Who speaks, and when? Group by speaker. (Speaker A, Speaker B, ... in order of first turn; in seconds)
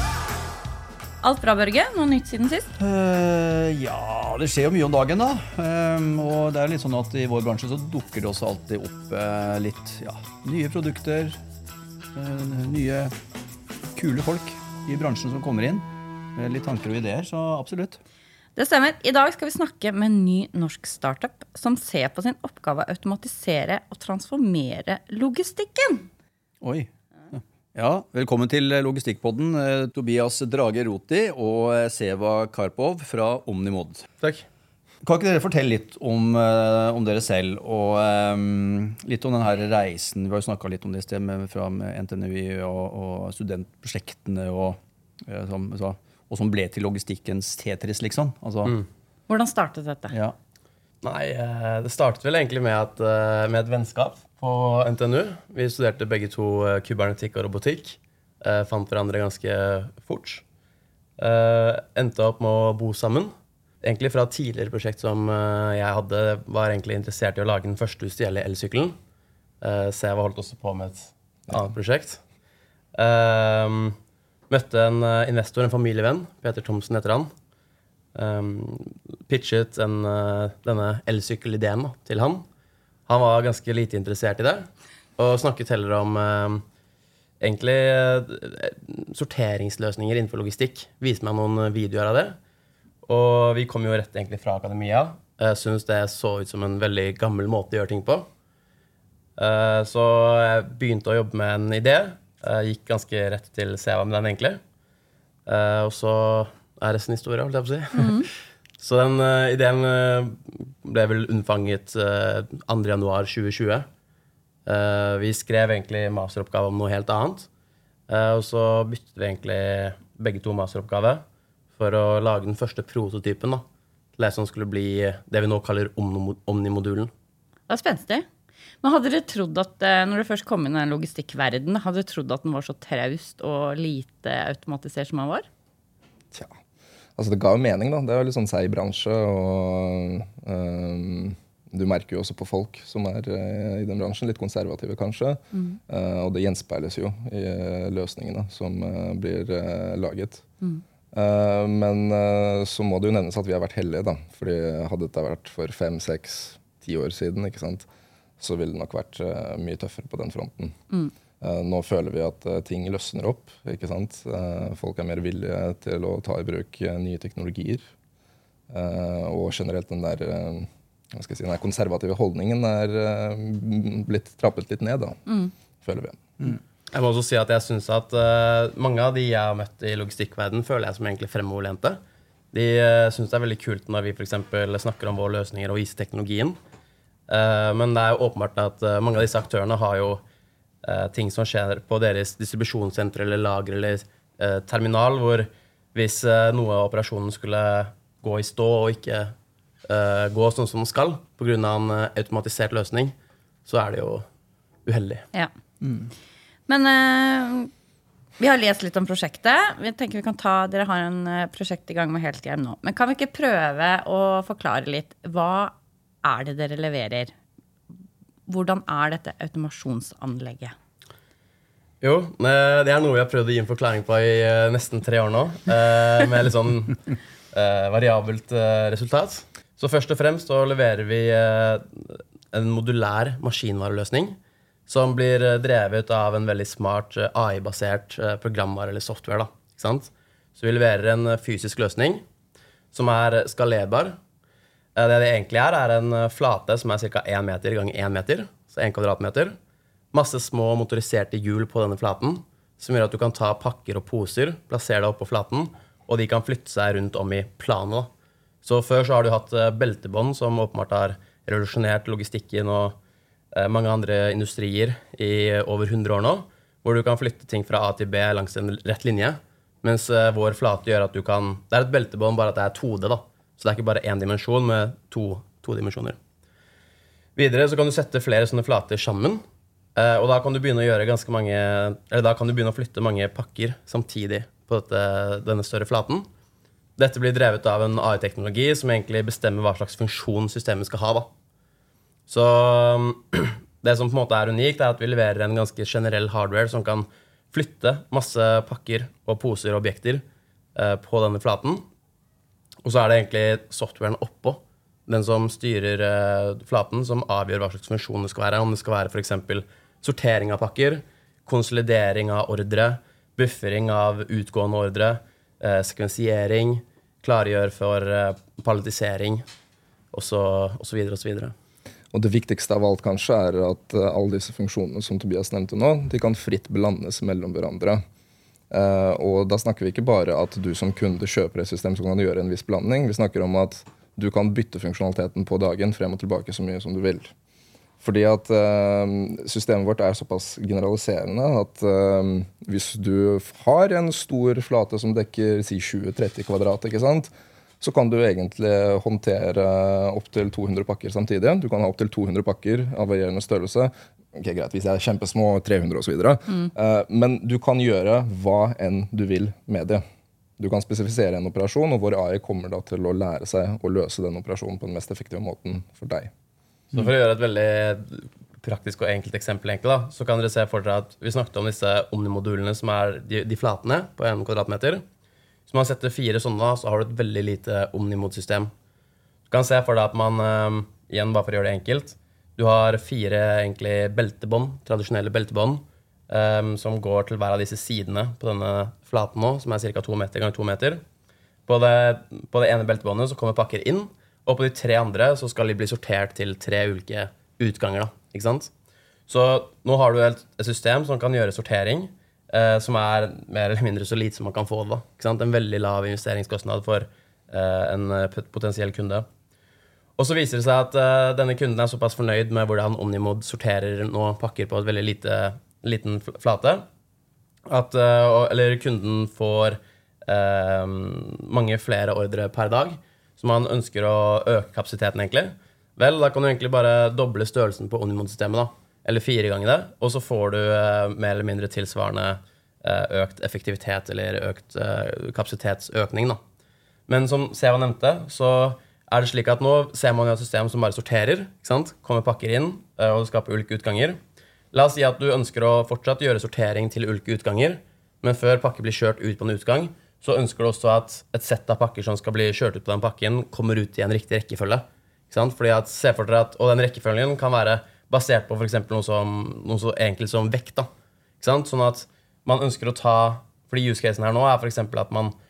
Speaker A: 1.2-2.7, 18.6-26.1, 49.3-50.1, 108.0-108.3, 127.7-128.3, 128.8-135.5, 145.5-145.8, 175.3-175.5, 206.7-207.7, 208.4-217.3, 218.5-220.7
Speaker B: 2.8-11.4, 12.2-13.1, 13.9-18.0, 26.6-34.1, 35.0-48.8, 205.8-206.1
Speaker C: 51.0-60.4, 61.2-69.0, 69.6-72.2, 73.0-74.0, 74.5-77.3, 78.2-82.5, 83.1-86.7, 87.4-92.4, 93.1-98.3, 99.4-104.6, 105.5-113.9, 114.7-117.5, 118.1-121.2, 121.8-123.6, 124.2-127.1, 176.9-182.0, 182.5-186.6, 187.3-190.2, 190.8-203.2, 203.7-204.3, 204.9-205.2, 222.0-242.2, 242.9-244.2, 245.0-249.6, 250.1-258.1, 258.6-263.0, 263.5-276.2, 277.4-279.4, 279.9-286.3, 287.0-291.3, 292.3-300.2, 300.8-301.9, 302.8-319.4, 320.1-321.5, 366.9-375.0, 375.7-378.7, 379.5-391.0, 391.7-398.7, 399.3-409.3, 410.2-416.8, 417.7-436.4, 437.1-444.2, 444.7-460.9, 461.4-465.4
Speaker D: 137.2-150.5, 151.1-157.9, 158.4-160.8, 161.4-167.8, 168.7-175.2, 175.8-176.2, 322.1-328.0, 328.7-337.3, 338.0-360.0, 360.6-366.3